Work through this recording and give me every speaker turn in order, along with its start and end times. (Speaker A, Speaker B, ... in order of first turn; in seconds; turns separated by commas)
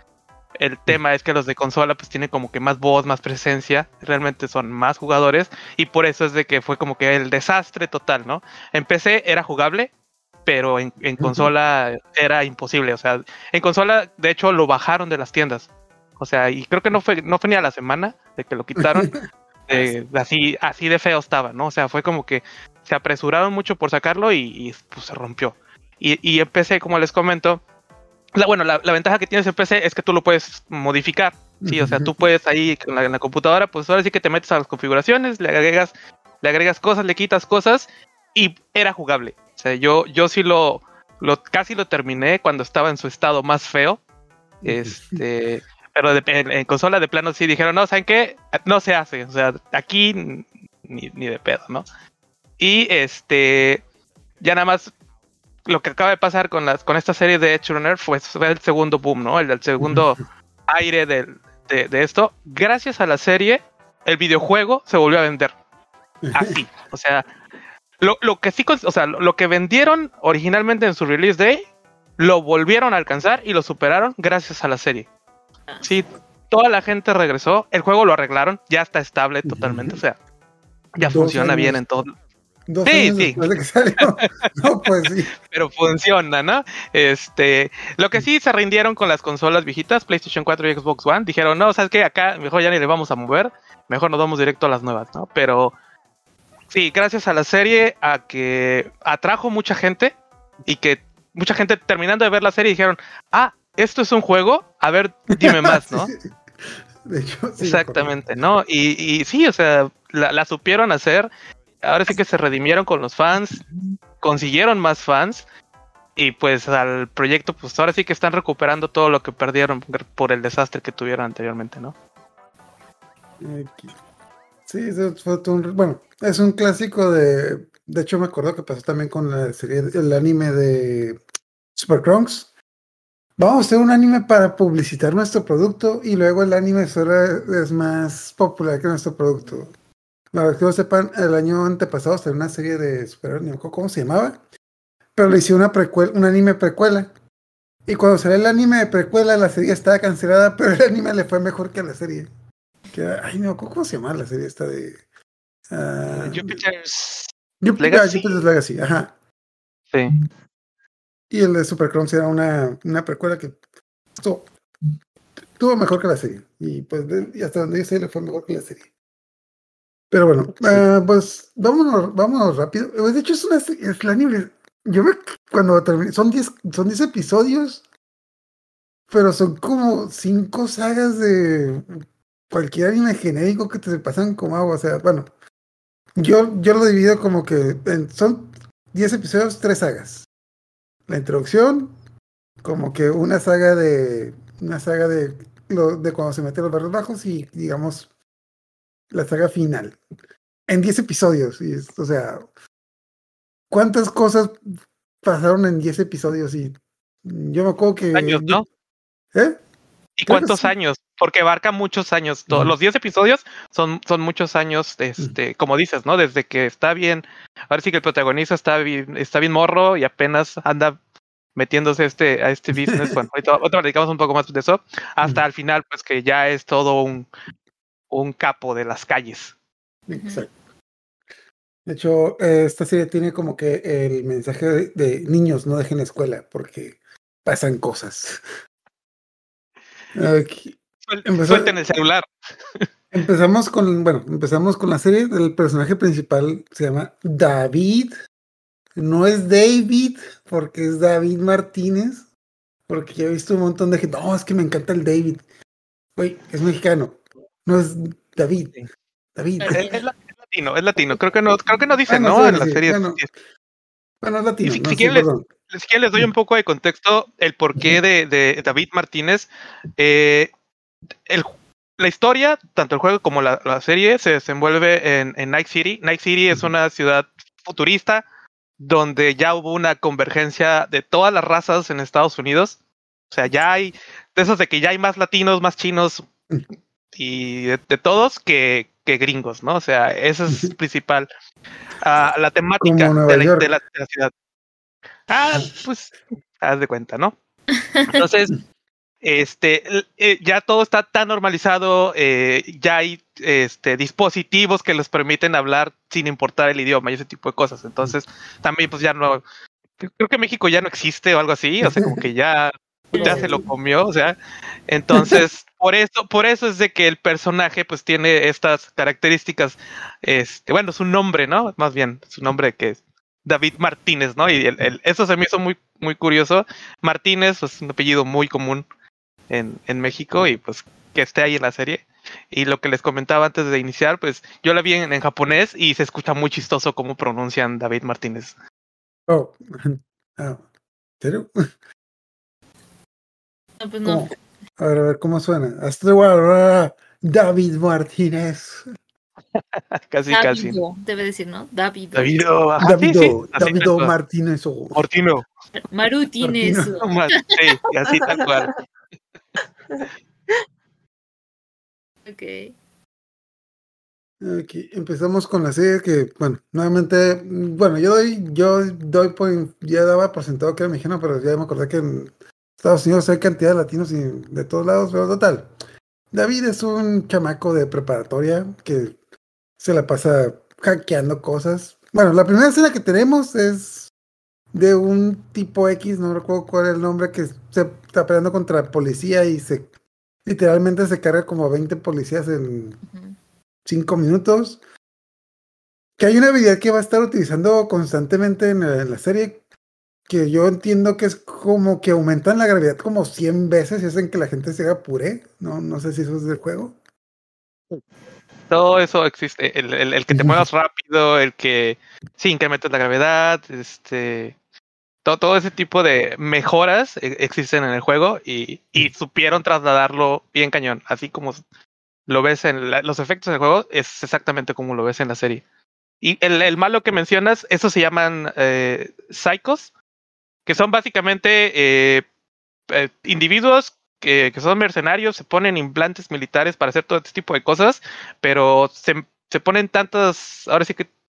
Speaker A: 0.6-9.9, Speaker A: 10.4-19.1, Speaker B: 11.2-11.5, Speaker B: 18.8-19.2, Speaker A: 19.7-27.6, Speaker A: 28.4-44.0, Speaker B: 31.6-32.1, Speaker B: 44.6-45.2, Speaker A: 44.6-51.9, Speaker A: 52.6-53.8, Speaker A: 54.4-54.9, Speaker A: 55.7-65.5, Speaker B: 59.8-60.1, Speaker B: 66.2-66.6, Speaker A: 66.3-67.3, Speaker A: 68.0-75.1, Speaker A: 75.8-80.2, Speaker B: 79.5-80.0, Speaker A: 81.0-82.1, Speaker B: 81.0-81.8, Speaker B: 82.7-85.3, Speaker A: 82.9-83.5, Speaker A: 85.5-95.8, Speaker A: 96.7-106.1, Speaker B: 105.4-108.1, Speaker A: 107.6-111.3, Speaker A: 111.8-113.6, Speaker A: 114.2-115.4, Speaker A: 116.2-122.0, Speaker B: 123.4-123.9, Speaker B: 124.7-131.2, Speaker B: 131.8-132.5, Speaker B: 133.4-139.7, Speaker B: 140.3-144.4, Speaker B: 145.2-147.1, Speaker B: 147.9-152.3, Speaker B: 152.9-155.0, Speaker B: 155.7-156.6, Speaker A: 156.1-158.4, Speaker B: 157.6-159.1, Speaker B: 161.3-163.6, Speaker B: 164.2-164.5, Speaker B: 165.6-168.9, Speaker B: 170.1-177.8, Speaker B: 179.1-181.9, Speaker B: 182.5-185.3, Speaker B: 186.2-190.3, Speaker B: 191.1-191.9, Speaker B: 192.6-198.1, Speaker B: 199.1-200.0, Speaker B: 200.7-202.5, Speaker B: 203.7-204.6, Speaker B: 205.2-208.6, Speaker A: 208.1-208.7, Speaker B: 209.3-209.6, Speaker A: 210.2-221.0, Speaker B: 210.3-210.7, Speaker A: 221.6-227.3, Speaker B: 222.8-223.1, Speaker A: 228.1-229.5, Speaker B: 230.1-230.5, Speaker C: 230.1-230.5, Speaker B: 231.9-238.4, Speaker B: 240.2-241.8, Speaker A: 241.1-242.3, Speaker B: 243.1-248.1, Speaker B: 249.0-252.3, Speaker B: 252.9-255.4, Speaker B: 256.2-258.8, Speaker B: 259.4-259.9, Speaker C: 259.6-260.0, Speaker A: 259.7-263.3, Speaker B: 262.1-263.2, Speaker B: 264.2-265.5, Speaker A: 264.6-270.5, Speaker A: 271.3-278.2, Speaker A: 278.8-282.8, Speaker A: 283.3-286.3, Speaker A: 287.1-291.3, Speaker B: 290.5-290.8, Speaker A: 292.0-294.3, Speaker B: 292.8-293.7, Speaker A: 295.3-297.4, Speaker C: 297.8-298.1, Speaker A: 298.1-298.5, Speaker A: 299.2-309.4, Speaker A: 310.0-314.4, Speaker B: 311.8-312.2, Speaker C: 313.1-313.6, Speaker B: 313.2-313.6, Speaker A: 314.9-328.9, Speaker B: 315.1-315.4, Speaker A: 329.5-338.5, Speaker B: 339.3-340.6, Speaker B: 341.2-341.6, Speaker C: 343.8-344.3, Speaker B: 344.0-348.9, Speaker A: 350.0-350.8, Speaker C: 350.3-352.3, Speaker A: 352.1-354.1, Speaker B: 352.8-355.1, Speaker A: 354.9-355.5, Speaker C: 355.8-357.4, Speaker B: 356.4-357.0, Speaker A: 357.0-358.8, Speaker C: 362.3-362.7, Speaker B: 364.4-375.7, Speaker B: 376.3-379.2, Speaker B: 379.8-384.1, Speaker B: 384.7-389.9, Speaker B: 390.4-393.0, Speaker C: 393.1-393.4, Speaker B: 393.9-394.8, Speaker B: 396.2-399.6, Speaker B: 400.3-407.0, Speaker A: 408.7-414.6, Speaker B: 410.3-410.6, Speaker A: 415.2-421.6, Speaker A: 422.3-425.6, Speaker A: 426.2-429.9, Speaker A: 430.7-432.2, Speaker A: 432.9-441.1